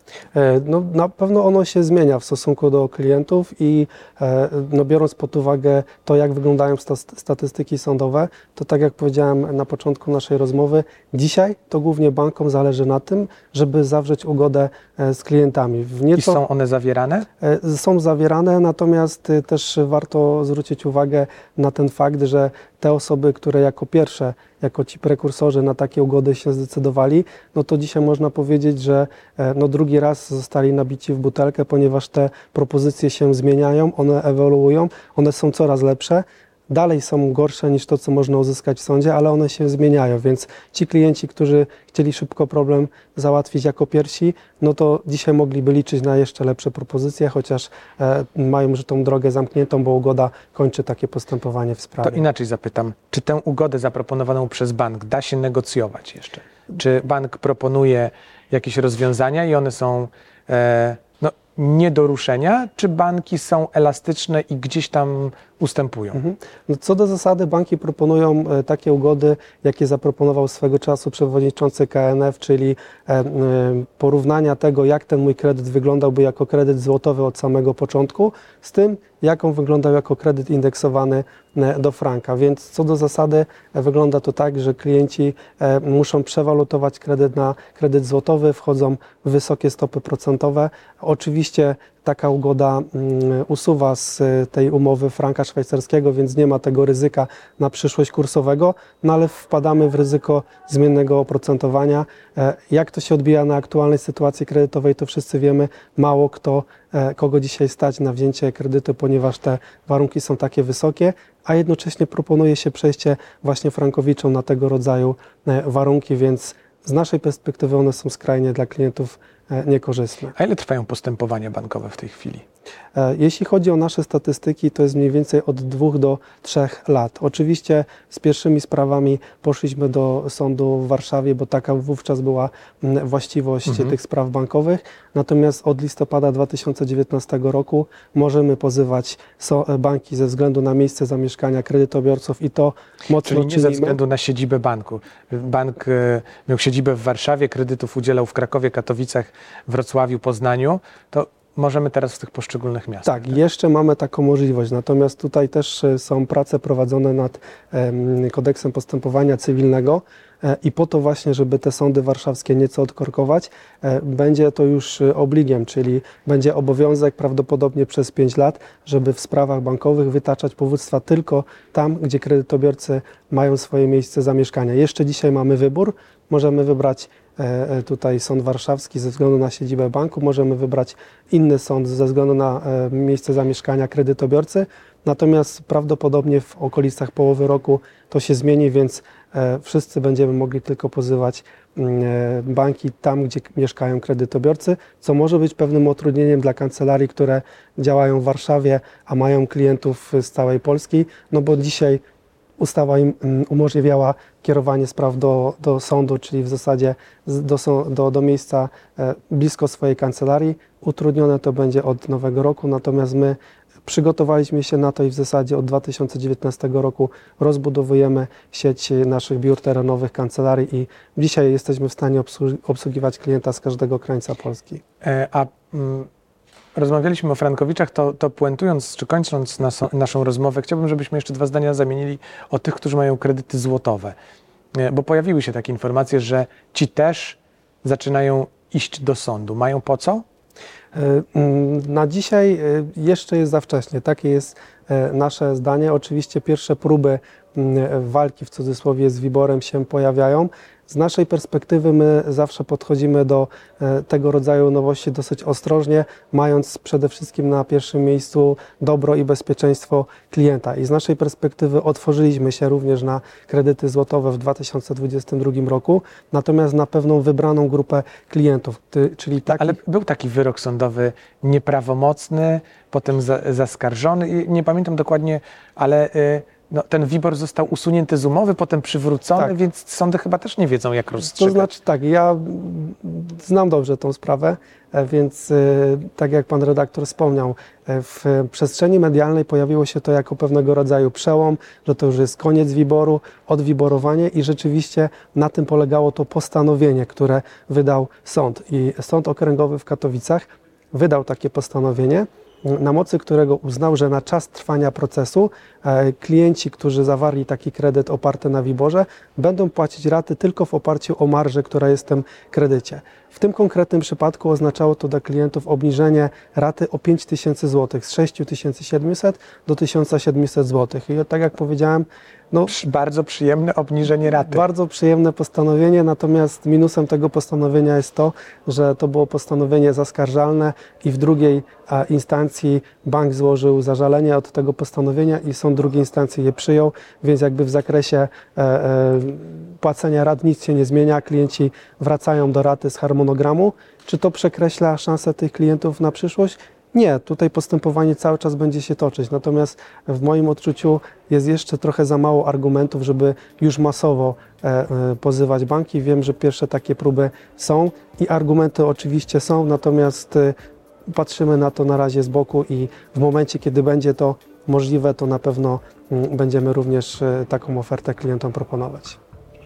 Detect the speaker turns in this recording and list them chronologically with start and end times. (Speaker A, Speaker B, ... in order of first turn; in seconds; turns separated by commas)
Speaker A: 0.3-16.4, Speaker B: 16.1-17.3, Speaker A: 17.4-52.2, Speaker B: 52.0-66.2, Speaker A: 66.1-120.3, Speaker B: 120.3-122.4, Speaker A: 122.9-144.0, Speaker B: 133.7-133.9, Speaker B: 143.2-153.3, Speaker A: 153.0-202.0, Speaker A: 202.6-224.8, Speaker B: 225.0-226.1, Speaker B: 226.7-234.1, Speaker B: 234.8-240.2, Speaker A: 240.9-269.8, Speaker B: 269.5-281.7, Speaker A: 281.2-322.7, Speaker B: 322.7-324.6, Speaker A: 324.4-360.5, Speaker A: 361.1-369.2